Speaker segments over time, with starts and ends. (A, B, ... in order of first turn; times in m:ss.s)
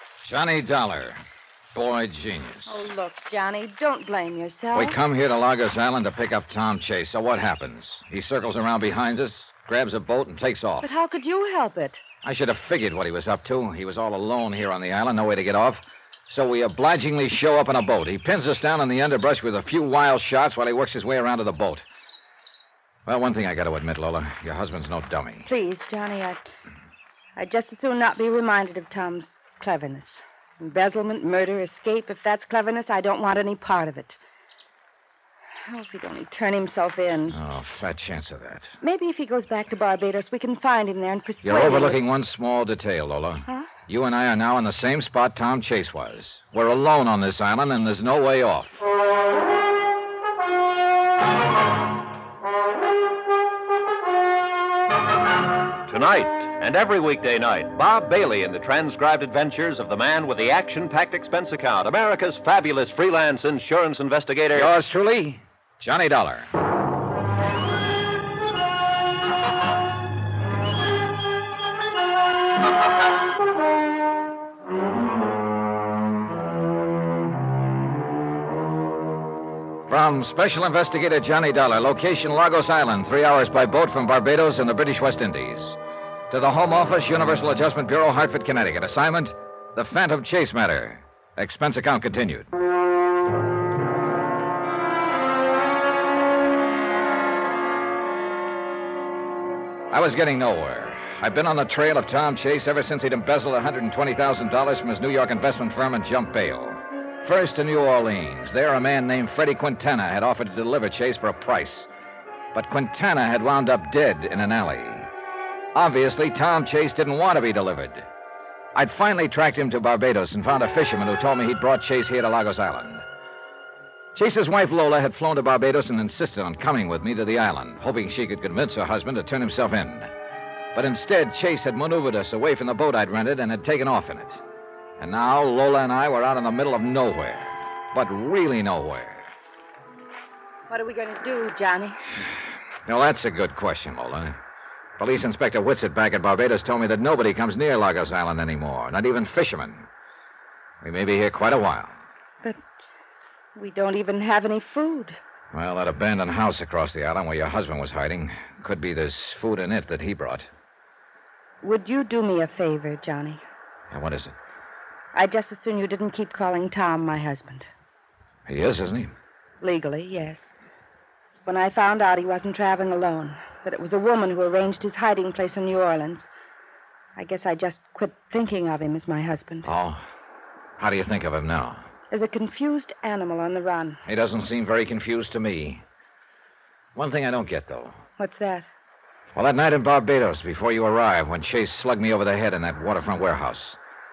0:00.2-0:01.2 A
0:01.7-0:02.9 A
0:02.6-0:05.0 B
0:04.7-0:10.9 A
0:10.8-0:12.0 B
0:12.2-0:21.8 A
0:23.0-0:25.5 A
0:25.4-0:26.4 B
0:27.4-0:34.2 B
0:35.7-0:37.4 B
0:37.3-0:38.7 A
0:38.8-0:42.0 B
0:41.4-0:48.9 A
0:55.9-1:04.7 C
1:04.5-1:06.5 A
1:19.9-1:25.8 A
1:26.3-1:32.5 A
1:39.9-1:51.9 A
1:52.5-1:55.1 A
1:55.7-1:58.1 A
1:58.7-2:03.0 A
2:04.1-2:10.1 A
2:10.7-2:14.4 A
2:15.0-2:19.3 A
2:20.7-2:22.0 B
2:22.8-2:24.3 A
2:25.0-2:29.9 A
2:30.8-2:32.0 A
2:33.5-2:35.2 B
2:35.5-2:40.5 A
2:41.6-2:43.4 B
2:43.9-2:44.3 A
2:45.1-2:47.7 B
2:48.5-2:49.1 A
2:49.6-2:50.5 B
2:51.4-2:56.3 B
2:57.2-2:59.7 B
2:59.6-3:00.0 A
3:00.8-3:01.8 A
3:02.1-3:04.0 B
3:04.0-3:05.8 A
3:06.9-3:08.0 A
3:08.2-3:08.7 B
3:09.3-3:13.8 A